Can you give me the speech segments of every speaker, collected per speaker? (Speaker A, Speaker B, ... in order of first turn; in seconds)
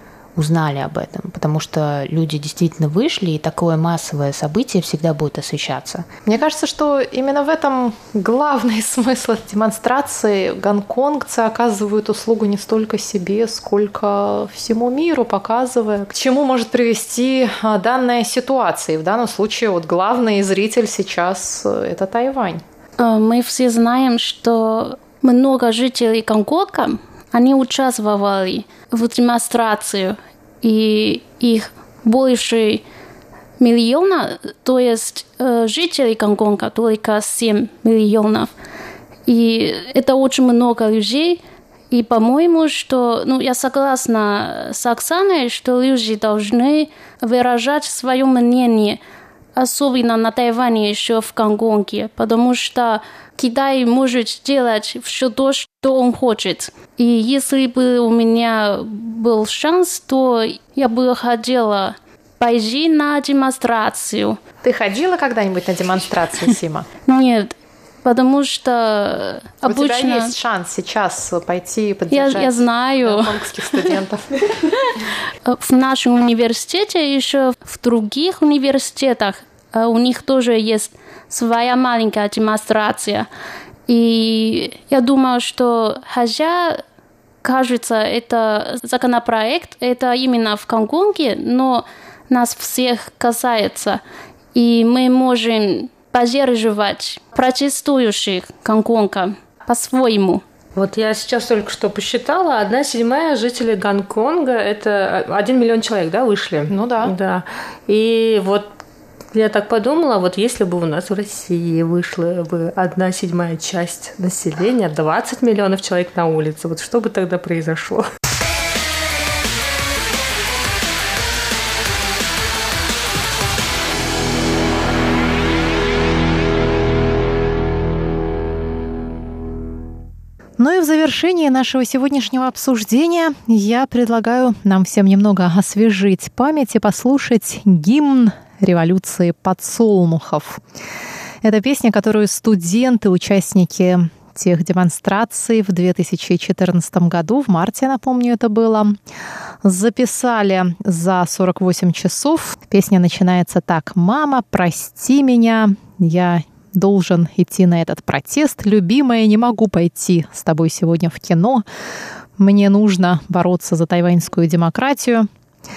Speaker A: 0.3-6.1
Speaker B: 6.2-22.6, 64.6-66.9, 69.6-74.5, 106.7-107.1, 130.6-140.6, 141.4-149.0, 149.6-161.6, 162.4-165.3
Speaker C: 23.0-32.8, 33.6-38.5, 39.3-41.4, 41.9-49.0, 49.6-64.4, 67.0-70.3, 72.1-73.8, 75.5-83.3, 83.9-86.8, 87.4-94.0, 94.5-100.4
Speaker D: 100.7-108.7, 109.3-118.0